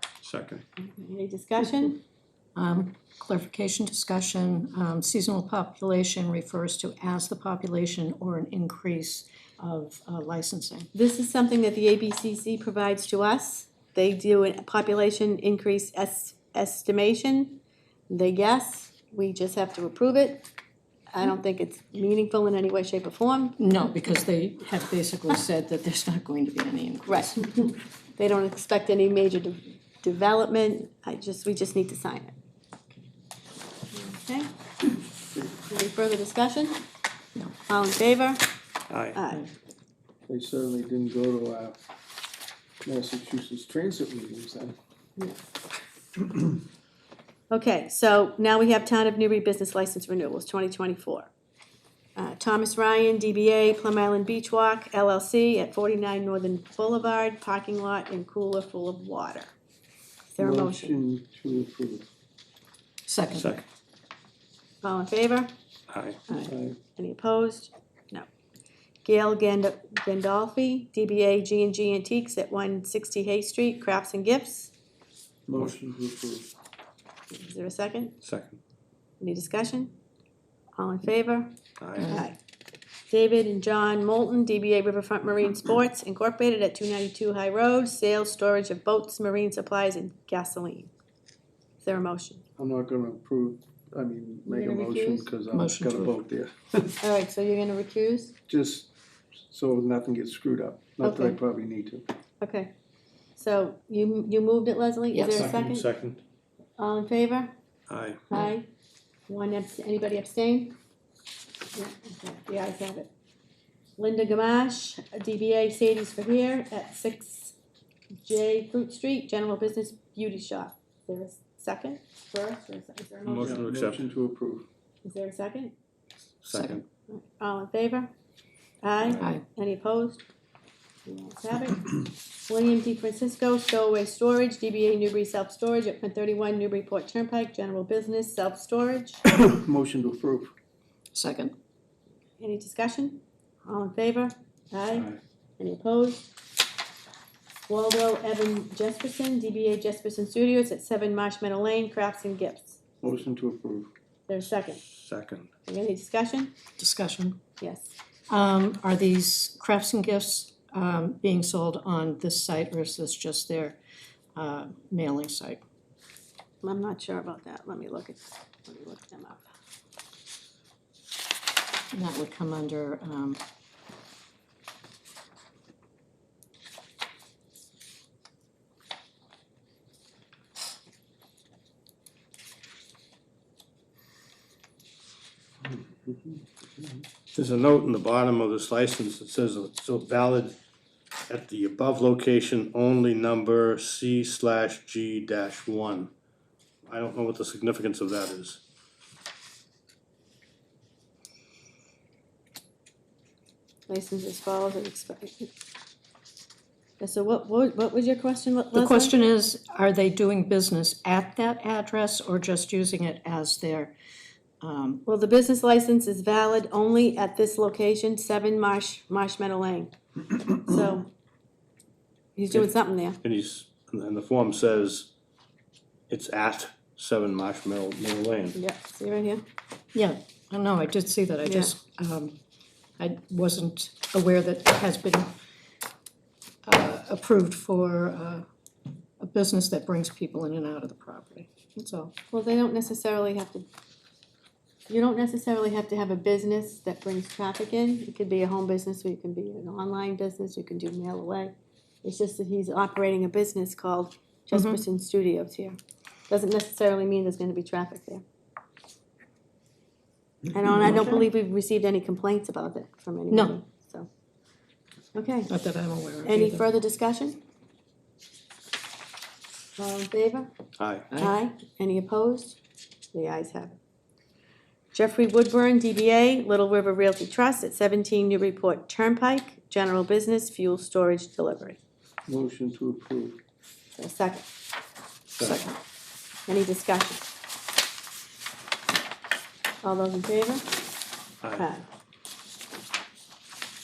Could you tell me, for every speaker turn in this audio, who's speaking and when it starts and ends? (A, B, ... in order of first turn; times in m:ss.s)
0:00.2-0:00.6 A
0:00.8-0:02.0 B
0:02.6-0:10.9 C
0:10.9-0:20.5 B
0:21.1-0:23.6 B
0:23.6-0:27.4 C
0:27.0-0:32.3 B
0:33.9-0:34.5 B
0:35.7-0:36.8 B
0:37.7-0:38.4 B
0:38.9-0:39.2 A
0:39.1-0:39.5 B
0:40.3-0:41.8 D
0:42.8-0:44.8 D
0:47.5-0:51.3 B
0:52.2-0:59.5 B
1:00.3-1:01.0 B
1:00.4-1:02.0 D
1:03.1-1:03.6 C
1:03.3-1:03.6 A
1:04.8-1:05.5 B
1:05.9-1:06.2 A
1:06.3-1:08.2 B
1:06.3-1:06.8 D
1:09.0-1:14.7 B
1:15.5-1:16.5 D
1:17.3-1:18.1 B
1:18.2-1:18.6 A
1:19.2-1:19.9 B
1:20.8-1:22.4 B
1:21.8-1:22.1 A
1:22.0-1:22.3 C
1:23.1-1:30.9 B
1:31.8-1:32.4 B
1:32.6-1:37.0 D
1:34.5-1:35.3 B
1:35.5-1:36.1 C
1:37.0-1:38.4 B
1:38.5-1:38.9 D
1:39.4-1:42.0 D
1:41.0-1:41.4 B
1:42.4-1:42.7 B
1:43.4-1:45.8 B
1:45.1-1:45.5 C
1:45.3-1:46.2 A
1:46.8-1:47.5 B
1:47.9-1:48.2 A
1:48.3-1:48.7 B
1:49.3-1:50.8 B
1:51.7-1:53.1 B
1:54.0-1:57.5 B
1:58.2-2:03.6 B
2:03.2-2:04.1 A
2:03.4-2:04.6 D
2:05.0-2:05.7 B
2:06.4-2:06.8 A
2:06.5-2:06.8 C
2:07.1-2:08.1 B
2:08.8-2:10.2 B
2:11.0-2:19.2 B
2:19.2-2:20.5 D
2:21.1-2:21.6 C
2:22.4-2:26.3 B
2:24.9-2:25.2 A
2:27.7-2:32.8 B
2:33.0-2:33.9 D
2:34.3-2:34.8 B
2:34.8-2:35.5 A
2:35.7-2:36.5 B
2:36.8-2:37.4 C
2:37.6-2:37.9 B
2:38.3-2:43.8 C
2:44.3-2:45.6 C
2:46.6-2:49.4 B
2:51.9-2:53.4 C
3:06.1-3:06.4 D
3:07.3-3:10.6 A
3:11.3-3:16.1 A
3:16.8-3:18.6 A
3:23.9-3:25.5 B
3:27.0-3:29.1 B
3:28.7-3:33.9 C
3:34.6-3:35.0 C
3:35.0-3:39.9 B
3:40.6-3:41.1 B
3:42.4-3:43.2 B
3:43.2-3:45.1 A
3:46.1-3:48.6 A
3:48.5-3:49.4 B
3:49.9-3:52.4 C
3:51.4-3:51.7 B
3:53.0-3:55.3 C
3:56.6-3:58.4 C
3:59.2-4:02.1 C
4:02.3-4:03.6 B
4:04.9-4:11.5 B
4:12.0-4:15.8 B
4:14.5-4:14.8 C
4:16.3-4:18.2 B
4:20.5-4:24.1 B
4:25.1-4:25.5 B
4:25.5-4:26.6 C
4:26.2-4:27.4 B
4:29.8-4:30.5 B
4:30.8-4:31.1 A
4:31.2-4:32.6 B
4:33.1-4:33.8 B
4:34.9-4:41.8 B
4:42.3-4:43.4 D
4:44.0-4:44.4 B
4:45.3-4:45.6 A
4:45.4-4:45.8 C
4:46.5-4:47.2 B
4:49.8-4:50.7 B
4:51.4-4:51.7 A
4:51.6-4:51.8 B